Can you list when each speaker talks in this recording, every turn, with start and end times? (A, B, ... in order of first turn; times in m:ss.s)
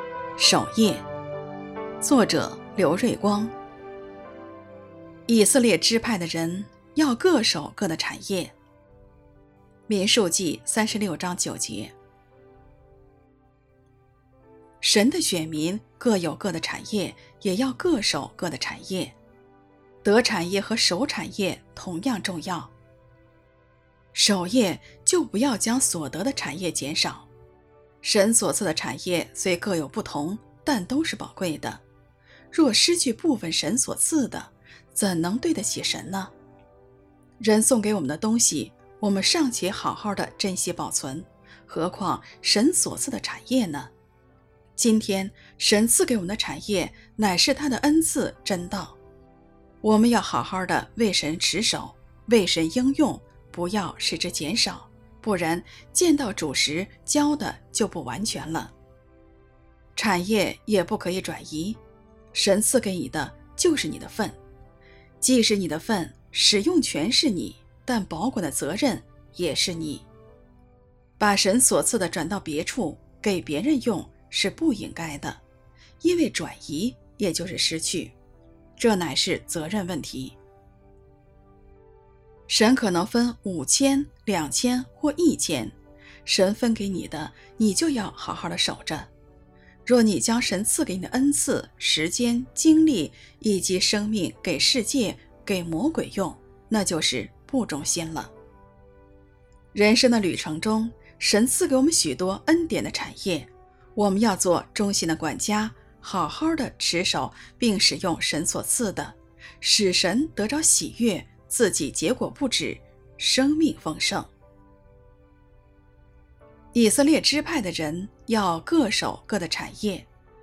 0:00.4-0:01.0 A
0:02.0-0:03.5 A
0:05.3-0:08.5 A
0:09.9-0:11.9 A
0:14.8-0:19.1 A
0:20.0-0:22.7 A
0:24.1-0:27.3 A
0:28.0-0:31.8 A
0:32.5-0:36.3 A
0:37.4-0:43.9 A
0:44.8-0:49.0 A
0:49.8-0:58.7 A
0:59.9-1:01.8 A
1:02.3-1:04.4 A
1:05.2-1:10.1 A
1:11.2-1:15.4 A
1:16.0-1:18.1 A
1:18.8-1:20.4 A
1:22.5-1:29.1 A
1:29.8-1:38.3 A
1:39.7-1:54.3 A
1:56.7-2:00.1 A